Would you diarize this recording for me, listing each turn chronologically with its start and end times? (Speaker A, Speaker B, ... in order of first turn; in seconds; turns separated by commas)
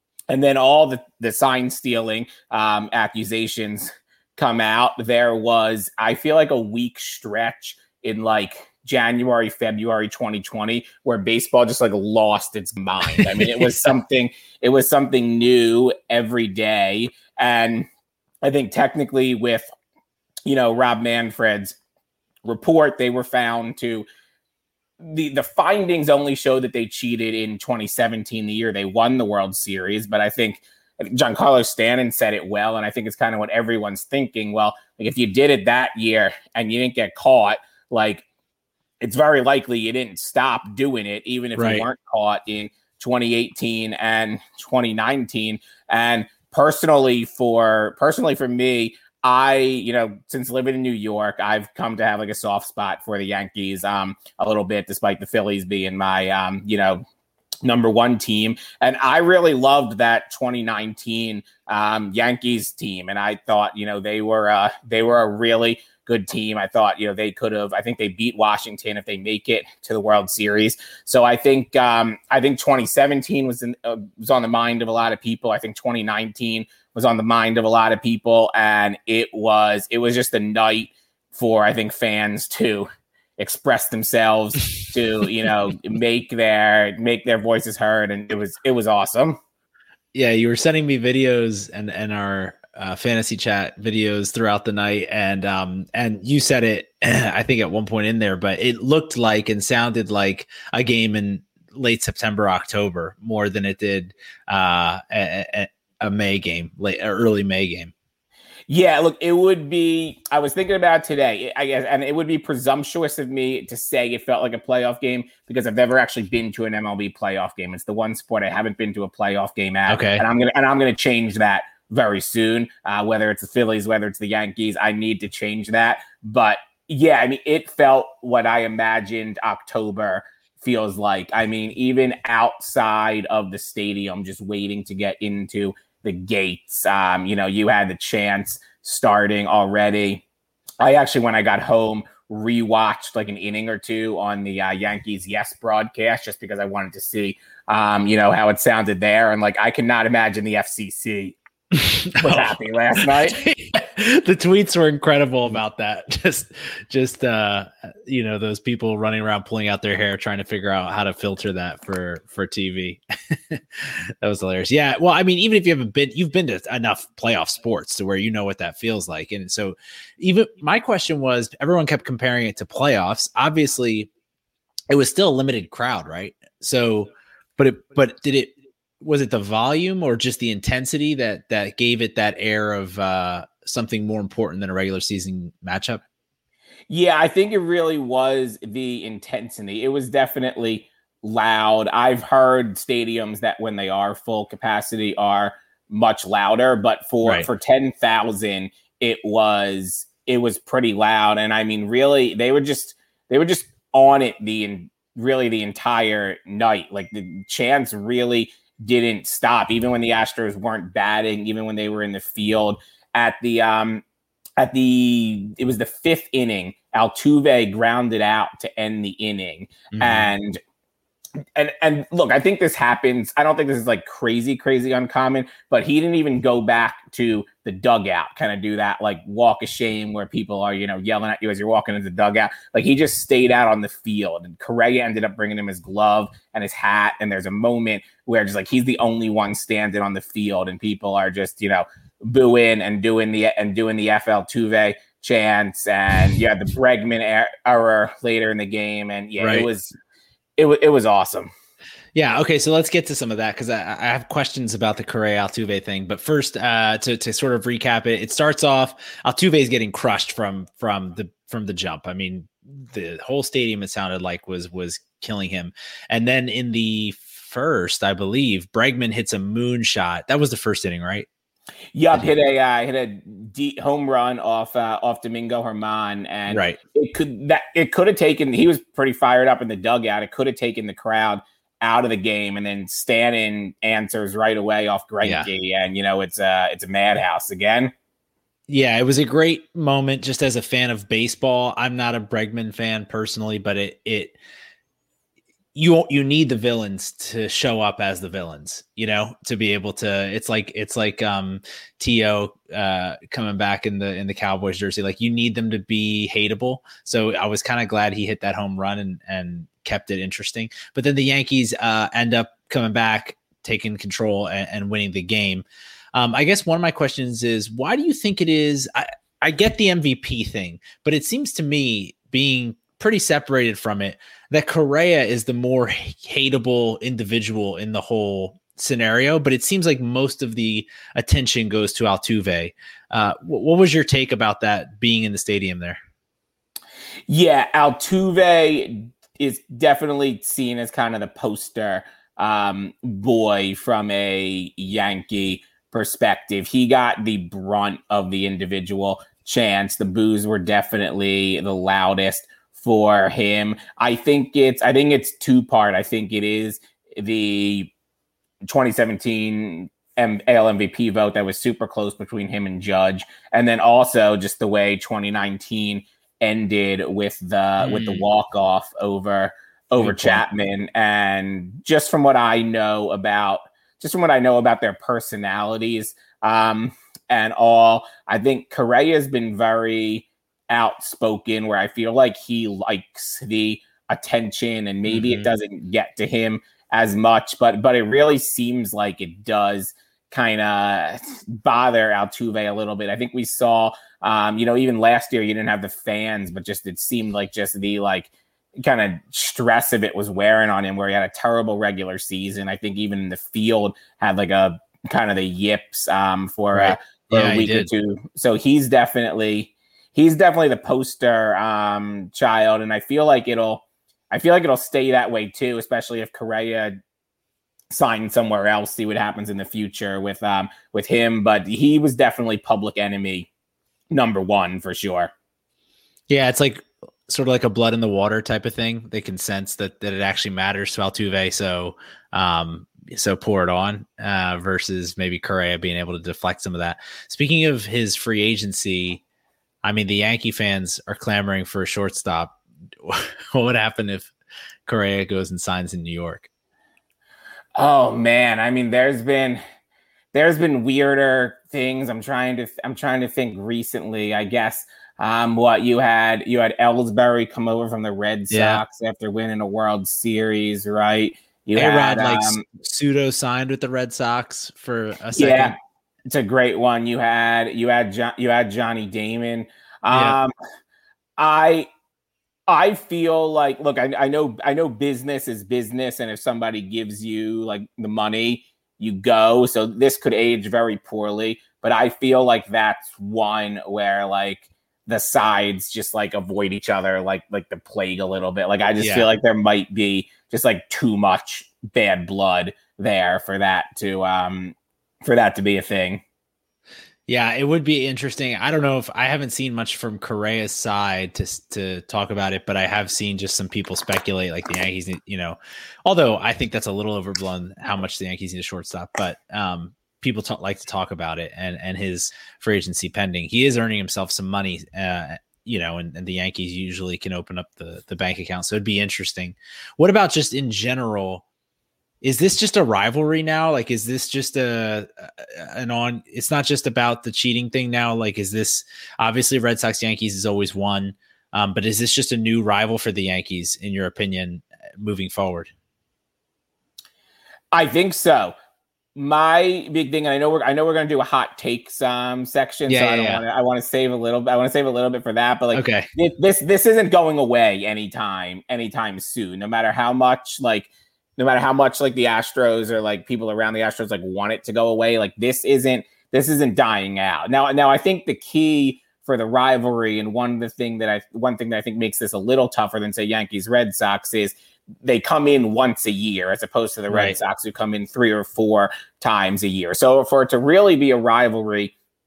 Speaker A: 0.3-17.9, Speaker B: 13.2-13.8, Speaker A: 18.4-19.7, Speaker A: 20.4-21.8, Speaker A: 22.4-24.1, Speaker A: 25.0-38.2, Speaker A: 39.0-57.0, Speaker B: 41.5-41.9, Speaker A: 57.6-89.4, Speaker B: 90.1-107.9, Speaker A: 108.7-140.2, Speaker B: 119.9-120.2, Speaker A: 140.8-151.4, Speaker B: 151.7-174.1, Speaker A: 152.2-153.4, Speaker B: 174.9-186.0, Speaker A: 186.9-214.0, Speaker A: 214.6-220.6, Speaker B: 219.9-220.3, Speaker A: 221.5-249.9, Speaker B: 249.4-249.7, Speaker A: 250.6-251.5, Speaker B: 252.1-271.3, Speaker A: 271.9-287.9, Speaker B: 276.5-276.8, Speaker B: 285.2-285.5, Speaker B: 288.7-294.4, Speaker B: 295.7-336.0, Speaker A: 337.3-357.9, Speaker A: 358.7-416.9, Speaker B: 367.8-368.2, Speaker B: 370.0-370.4, Speaker B: 385.1-385.5, Speaker B: 406.7-407.9, Speaker A: 417.9-423.5, Speaker A: 424.1-425.3, Speaker B: 426.3-439.2, Speaker B: 439.8-444.3, Speaker B: 444.9-446.5, Speaker A: 447.8-449.6, Speaker A: 450.3-462.6, Speaker B: 458.5-458.8, Speaker B: 461.7-465.7, Speaker A: 465.3-465.7, Speaker A: 466.3-470.5, Speaker B: 470.1-470.4, Speaker A: 471.4-471.9, Speaker A: 472.7-496.2, Speaker B: 489.0-489.3, Speaker B: 497.3-521.4, Speaker B: 522.2-535.7, Speaker A: 537.7-538.5, Speaker A: 539.1-571.9, Speaker B: 542.9-543.4, Speaker B: 545.7-546.1, Speaker B: 567.1-567.4